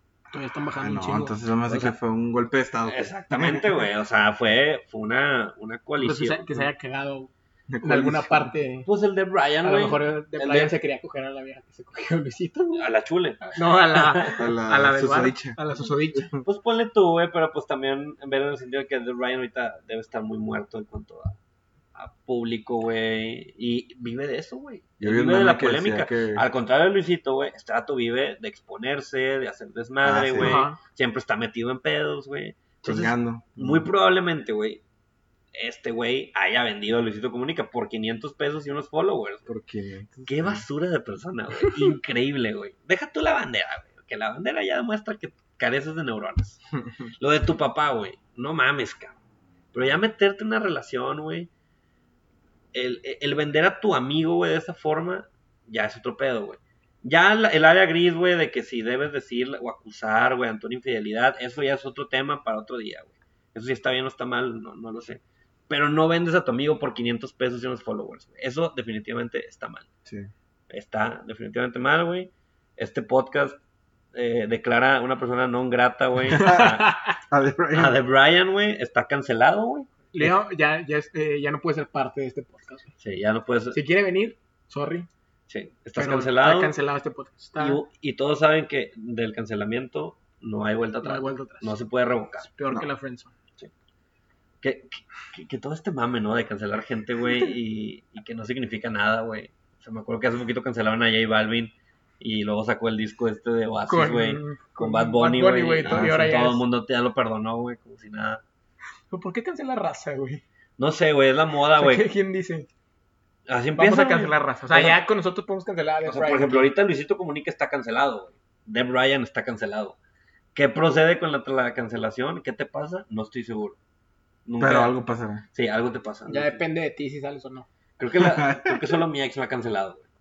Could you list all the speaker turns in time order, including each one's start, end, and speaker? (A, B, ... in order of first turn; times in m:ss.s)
0:00.3-0:01.4 A
0:00.3-0:03.9 B
0:02.8-0:06.5 C
0:06.0-0:08.9 A
0:07.7-0:08.5 B
0:08.9-0:10.7 C
0:09.6-0:12.9 A
0:12.8-0:14.4 C
0:13.5-0:16.3 A
0:14.4-0:15.6 B
0:16.1-0:16.4 B
0:16.4-0:21.4 C
0:22.0-0:34.8 C
0:25.0-0:26.5 B
0:30.0-0:30.6 B
0:30.4-0:30.8 A
0:32.8-0:33.9 B
0:35.5-0:39.5 C
0:39.5-0:40.6 B
0:40.3-0:46.6 C
0:47.2-0:49.2 C
0:49.7-0:51.5 C
0:52.7-1:09.9 C
1:10.0-1:10.3 B
1:10.7-1:13.6 C
1:14.1-1:17.0 C
1:16.2-1:16.8 B
1:16.4-1:17.1 A
1:17.3-1:18.0 B
1:17.7-1:20.1 C
1:20.1-1:22.9 A
1:23.0-1:23.8 C
1:23.7-1:25.1 A
1:25.5-1:26.8 C
1:26.0-1:27.8 A
1:27.6-1:32.5 C
1:31.0-1:31.8 A
1:32.4-1:33.3 A
1:34.6-1:48.4 C
1:43.9-1:46.6 A
1:45.8-1:46.2 B
1:49.1-1:50.4 A
1:50.8-1:52.1 C
1:51.8-1:52.7 A
1:53.5-1:55.0 C
1:53.8-1:56.7 A
1:56.0-2:00.0 C
2:00.5-2:03.8 C
2:04.5-2:05.0 C
2:04.6-2:05.4 B
2:05.5-2:06.6 C
2:06.3-2:07.7 A
2:08.0-2:10.1 C
2:08.2-2:08.8 B